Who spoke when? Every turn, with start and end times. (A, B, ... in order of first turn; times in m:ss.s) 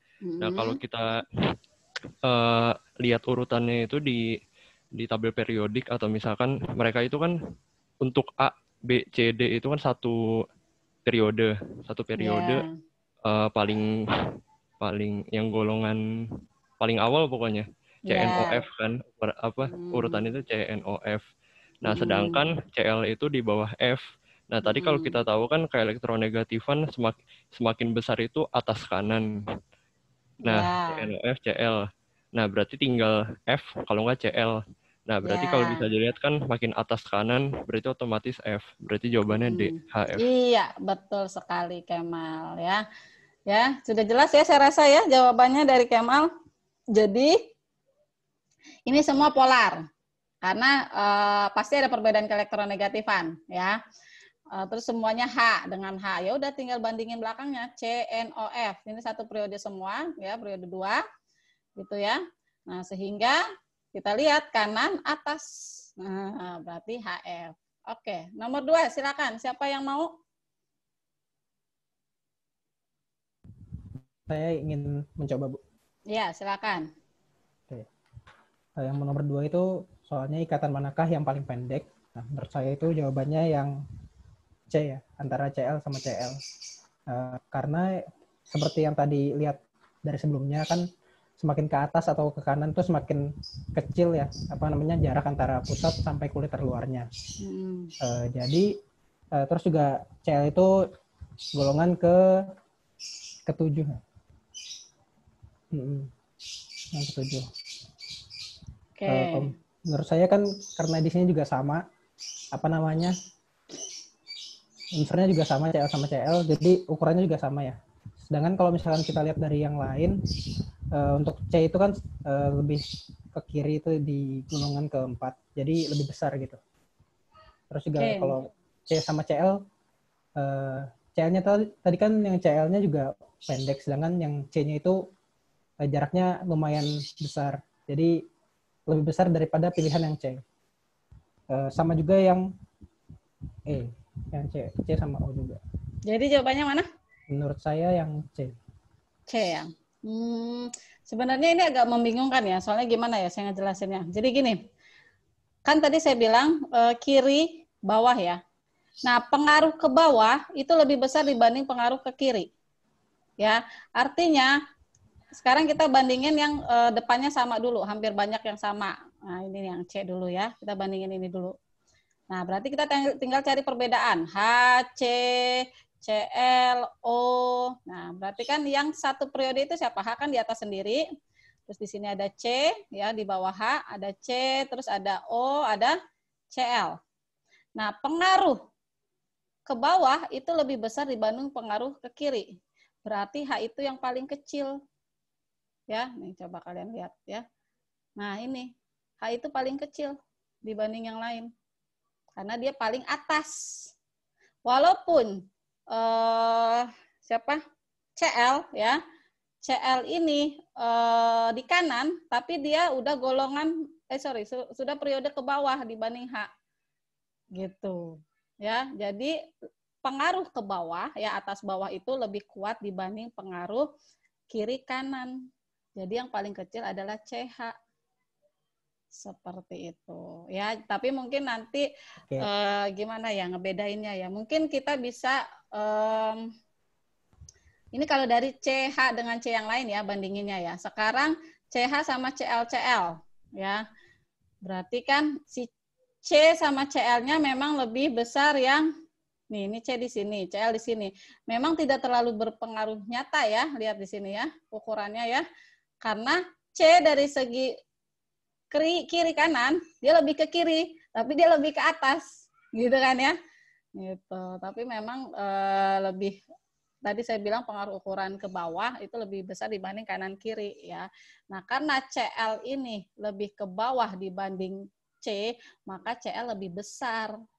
0:00.2-0:00.8 A
0:00.4-0:01.2 B
0:02.3-0:04.2 B
0:05.0-0:07.3 B
0:08.0-0:10.2 B
0:11.1-0:12.6 B
0:12.2-0:12.8 A
0:13.3-0:13.8 B
0:14.8-0:16.0 B
0:16.8-0:21.2 B
0:18.1-0:18.6 A
0:19.6-0:20.2 A
0:21.8-0:29.3 B
0:21.9-0:22.4 A
0:24.6-0:25.2 A
0:30.4-0:31.1 A
0:30.5-0:40.2 B
0:35.2-0:35.9 A
0:39.4-0:42.8 A
0:43.5-0:46.3 A
0:47.0-0:47.3 A
0:48.9-0:49.8 A
0:50.4-0:53.8 A
0:54.5-1:01.0 A
1:01.8-1:03.4 A
1:04.0-1:05.5 A
1:06.0-1:10.1 A
1:14.3-1:15.6 C
1:16.1-1:16.9 A
1:18.8-1:23.8 C
1:24.7-1:26.4 C
1:27.1-1:27.9 C
1:28.5-1:30.8 C
1:31.4-1:37.1 C
1:37.4-1:37.9 A
1:38.0-1:38.7 C
1:39.4-1:40.7 C
1:41.6-1:42.2 C
1:43.5-1:44.0 C
1:45.7-1:46.1 C
1:46.9-1:47.5 C
1:49.0-1:49.5 A
1:49.1-1:51.8 C
1:52.5-1:53.1 C
1:55.0-2:00.2 C
2:01.0-2:02.8 C
2:03.3-2:06.6 C
2:07.7-2:09.6 C
2:08.0-2:08.4 A
2:10.4-2:15.0 C
2:15.8-2:18.2 C
2:18.9-2:20.4 C
2:21.5-2:22.4 C
2:23.7-2:25.6 C
2:26.1-2:26.9 A
2:27.3-2:28.6 C
2:29.3-2:34.6 A
2:35.7-2:38.4 A
2:39.1-2:42.5 A
2:43.4-2:44.6 A
2:45.4-2:51.6 A
2:52.3-3:01.0 A
3:01.7-3:06.0 A
3:06.5-3:07.0 A
3:07.8-3:08.6 A
3:09.7-3:12.5 A
3:13.1-3:14.7 A
3:15.9-3:17.4 A
3:18.2-3:18.7 A
3:19.2-3:20.1 A
3:20.7-3:21.5 A
3:22.4-3:23.6 A
3:24.7-3:25.4 A
3:25.9-3:27.6 A
3:28.2-3:29.0 A
3:29.6-3:36.5 A
3:37.6-3:39.3 A
3:40.0-3:43.9 A
3:44.5-3:45.3 A
3:46.0-3:47.7 A
3:49.2-3:51.9 A
3:52.4-3:56.5 A
3:57.9-4:03.8 A
4:04.6-4:05.7 A
4:06.2-4:08.9 A
4:09.5-4:15.4 A
4:16.0-4:17.7 A
4:18.7-4:23.4 A
4:24.0-4:26.4 A
4:27.1-4:37.3 A